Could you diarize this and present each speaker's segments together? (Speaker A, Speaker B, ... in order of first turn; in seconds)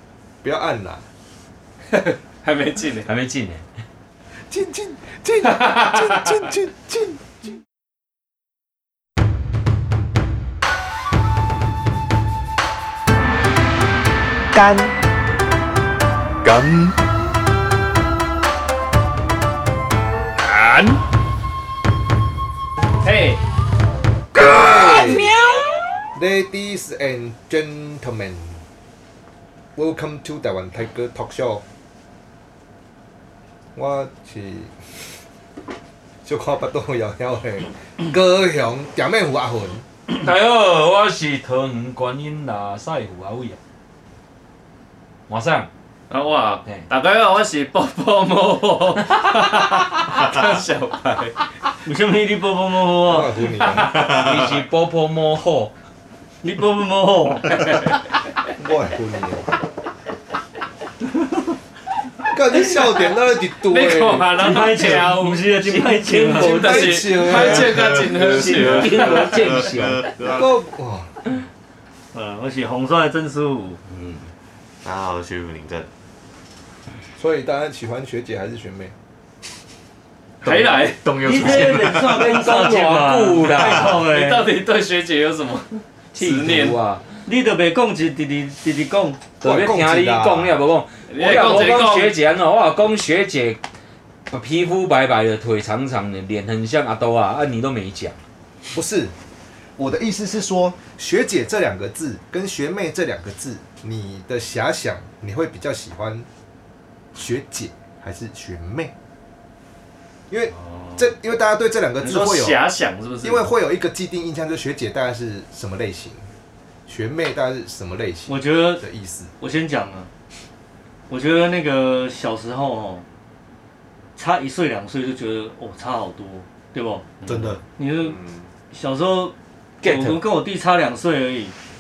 Speaker A: 0.4-1.0, 4.5-7.5, 14.5-14.9, 24.3-25.4, 26.1-28.6, 29.8-31.6, 33.7-35.0, 36.2-39.8, 53.0-54.0, 58.5-59.5, 62.2-64.4, 66.3-68.1, 70.3-71.2, 77.2-78.9, 89.4-90.6, 98.7-99.1, 99.8-106.3, 107.1-108.9, 110.3-112.6, 113.2-116.3, 116.9-119.3, 127.2-127.6
Speaker B: 1.9-3.1, 5.4-6.5, 23.0-23.4, 46.1-51.4, 63.6-65.5, 66.2-69.6, 80.4-81.2, 83.5-86.8, 91.1-92.2, 110.5-111.1, 112.0-113.5
Speaker C: 3.0-3.6, 24.8-25.6, 40.1-43.6, 45.3-45.7, 54.0-55.7, 65.5-67.6, 68.2-70.1, 73.9-74.2, 81.5-84.0, 86.1-87.1, 89.4-93.6, 94.3-98.2, 129.8-130.2
Speaker D: 51.8-53.4, 56.4-57.7, 64.4-66.8, 72.1-73.8, 81.2-84.5, 87.2-89.2, 118.3-118.8, 119.4-120.1, 121.1-123.0, 124.2-128.2, 128.7-131.5
Speaker E: 53.8-54.6, 67.5-70.5, 74.8-75.9, 80.4-82.3, 128.0-128.5